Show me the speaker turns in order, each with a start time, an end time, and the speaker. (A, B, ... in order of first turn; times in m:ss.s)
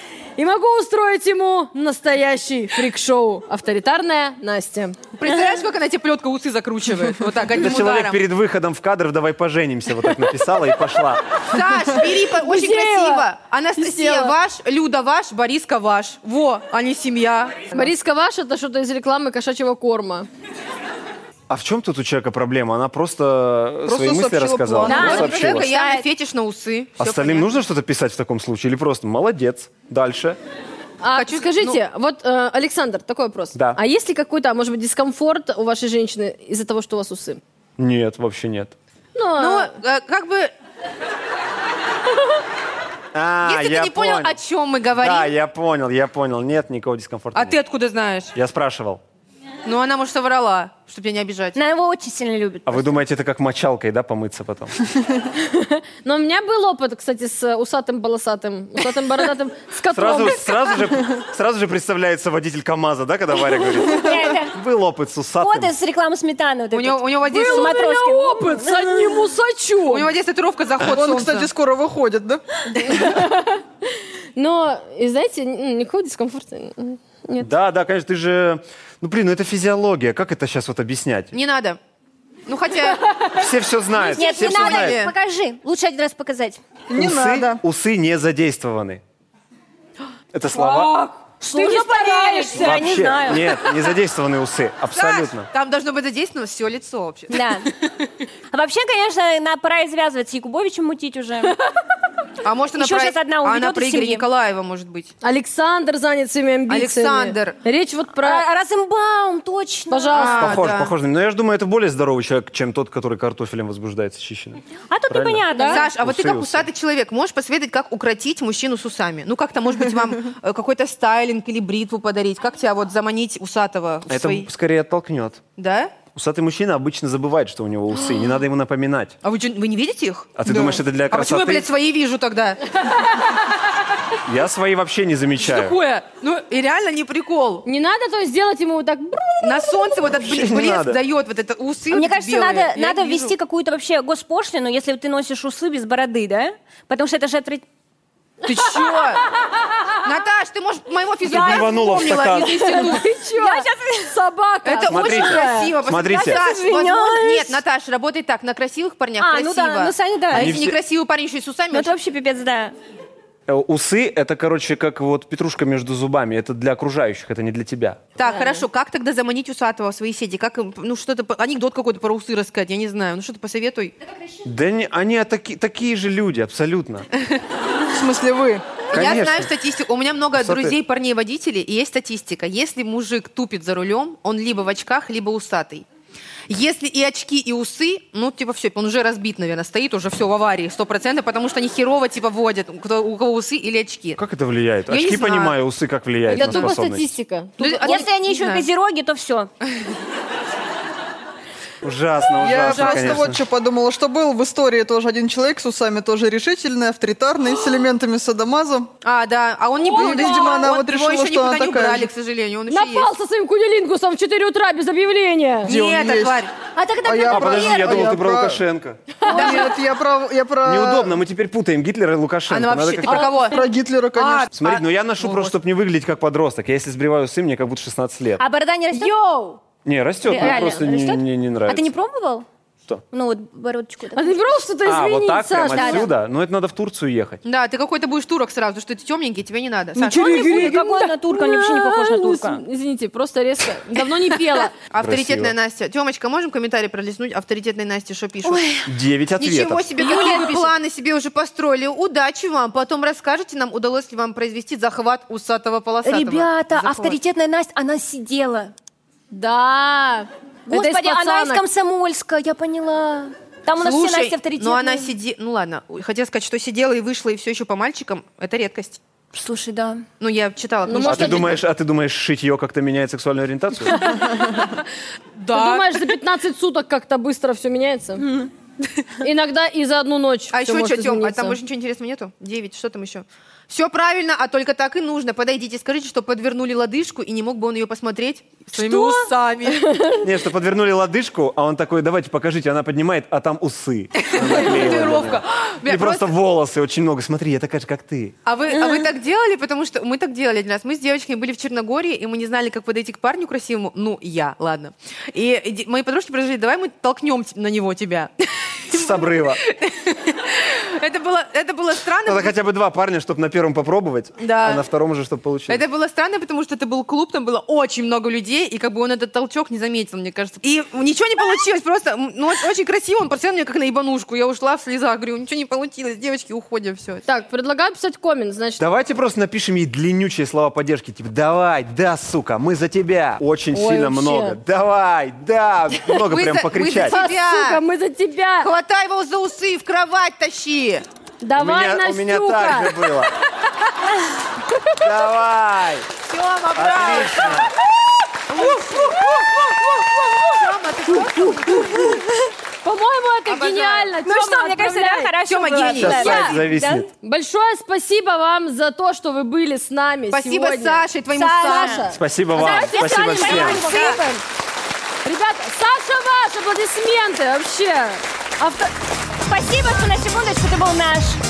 0:00.4-0:05.0 A
0:05.2-0:08.2 B
0:07.6-0:11.4 C
0:11.4-0:17.9 B
0:12.2-0:14.4 A
0:17.7-0:20.3 A
0:21.5-0:25.7 C
0:23.9-0:25.2 D
0:24.9-0:26.1 E
0:24.9-0:25.6 A
0:24.9-0:27.5 B
0:27.0-0:30.4 C
0:31.0-0:37.4 A
0:31.2-0:31.8 B
0:33.5-0:33.8 C
0:37.8-0:38.7 C
0:39.2-0:39.7 A
0:39.4-0:40.5 B
0:43.1-0:44.4 C
0:43.4-0:45.3 B
0:44.9-0:47.6 C
0:47.3-0:48.3 B
0:48.4-0:49.0 C
0:49.6-0:51.6 B
0:51.6-0:52.9 E
0:52.7-0:54.9 C
0:55.4-1:00.9 A
0:59.9-1:05.7 C
1:03.9-1:04.6 E
1:05.4-1:09.2 E
1:06.7-1:07.8 B
1:07.3-1:10.1 A
1:09.9-1:11.5 B
1:10.8-1:12.4 D
1:12.7-1:13.6 A
1:14.4-1:17.5 A
1:17.4-1:21.3 C
1:21.3-1:21.8 B
1:22.5-1:23.2 B
1:23.3-1:25.0 C
1:24.0-1:25.1 B
1:24.0-1:26.6 E
1:26.9-1:27.6 D
1:27.0-1:29.0 C
1:30.3-1:31.0 C
1:30.5-1:33.0 A
1:31.4-1:33.6 E
1:32.5-1:35.5 C
1:34.9-1:37.7 B
1:37.3-1:37.7 E
1:38.5-1:41.6 E
1:42.4-1:45.1 B
1:42.8-1:44.2 E
1:45.2-1:48.4 A
1:46.7-1:47.6 B
1:48.2-1:50.4 E
1:49.9-1:50.6 A
1:50.1-1:50.9 B
1:50.4-1:56.7 C
1:54.9-1:55.9 E
1:55.5-1:55.8 A
1:55.6-2:04.5 B
2:04.1-2:05.4 C
2:05.6-2:06.0 B
2:06.0-2:09.2 C
2:09.2-2:13.1 B
2:10.4-2:11.7 C
2:14.3-2:15.8 C
2:15.4-2:17.6 B
2:17.6-2:20.0 A
2:19.4-2:23.3 B
2:20.2-2:21.0 C
2:21.9-2:27.6 E
2:28.4-2:29.2 B
2:28.8-2:30.0 A
2:30.0-2:33.0 B
2:31.2-2:32.7 C
2:31.3-2:31.7 E
2:32.3-2:35.8 A
2:33.3-2:34.1 E
2:34.6-2:41.9 B
2:34.8-2:36.4 C
2:36.1-2:37.6 E
2:39.2-2:40.6 E
2:40.3-2:40.8 C
2:41.7-2:42.8 E
2:43.5-2:48.0 C
2:48.2-2:53.9 B
2:48.2-2:48.6 A
2:54.4-2:57.1 C
2:57.9-2:58.6 D
2:58.9-2:59.5 C
2:58.9-3:05.9 B
3:00.4-3:00.8 C
3:06.5-3:14.2 B
3:14.2-3:17.1 C
3:14.9-3:15.6 B
3:16.3-3:18.1 A
3:16.4-3:16.7 B
3:17.6-3:18.7 B
3:17.8-3:19.5 E
3:21.8-3:23.4 C
3:22.4-3:28.9 D
3:22.4-3:23.3 B
3:29.0-3:33.1 B
3:29.8-3:30.7 A
3:29.9-3:32.1 D
3:32.7-3:35.7 A
3:35.6-3:36.5 D
3:35.6-3:36.5 B
3:36.8-3:38.1 E
3:37.0-3:38.6 D
3:37.3-3:39.2 C
3:39.2-3:39.7 A
3:39.2-3:39.7 B
3:39.2-3:41.2 D
3:40.6-3:43.4 C
3:42.5-3:45.6 B
3:43.4-3:44.5 D
3:44.5-3:48.4 C
3:48.4-3:49.1 E
3:48.9-3:49.6 A
3:49.8-3:51.9 C
3:50.3-3:52.5 E
3:50.3-3:50.9 A
3:53.1-3:54.4 E
3:54.2-3:56.1 A
3:54.8-3:57.4 C
3:55.7-3:56.1 E
3:57.4-4:00.8 B
4:00.0-4:04.7 A
4:00.1-4:02.6 E
4:04.6-4:08.8 B
4:05.0-4:05.5 C
4:08.4-4:08.8 E
4:08.8-4:09.9 C
4:09.4-4:17.2 B
4:10.0-4:10.7 A
4:10.0-4:10.5 E
4:16.0-4:18.7 E
4:19.3-4:21.6 A
4:20.7-4:25.1 E
4:23.8-4:29.0 B
4:29.3-4:30.0 E
4:30.2-4:31.6 B
4:30.9-4:31.6 A
4:31.0-4:34.2 C
4:33.9-4:34.5 A
4:35.4-4:36.0 B
4:35.5-4:38.4 A
4:39.2-4:41.6 A
4:40.5-4:50.0 B
4:48.7-4:49.3 A
4:49.8-4:50.2 A
4:50.2-4:58.4 C
4:54.2-4:56.3 B
4:58.4-5:12.6 B
5:08.9-5:09.6 C
5:12.2-5:15.8 C
5:14.4-5:14.8 B
5:15.7-5:27.2 B
5:27.3-5:28.8 A
5:28.8-5:37.2 C
5:33.7-5:34.6 A
5:36.2-5:37.8 B
5:37.0-5:38.7 A
5:38.6-5:41.0 B
5:41.4-5:43.2 A
5:41.6-5:43.3 C
5:44.7-5:45.0 A
5:44.9-5:46.1 C
5:46.2-5:47.7 B
5:46.8-5:47.7 C
5:48.5-5:52.2 B
5:48.6-5:49.6 A
5:51.1-5:52.2 A
5:52.8-5:55.3 A
5:53.5-5:54.2 B
5:54.2-5:57.1 E
5:55.5-5:56.6 B
5:56.0-5:57.1 C
5:56.2-5:56.6 A
5:57.2-6:04.4 A
6:00.3-6:02.0 B
6:01.3-6:02.0 E
6:02.1-6:03.8 C
6:02.6-6:04.2 E
6:03.4-6:04.2 B
6:05.2-6:08.9 A
6:09.4-6:11.4 E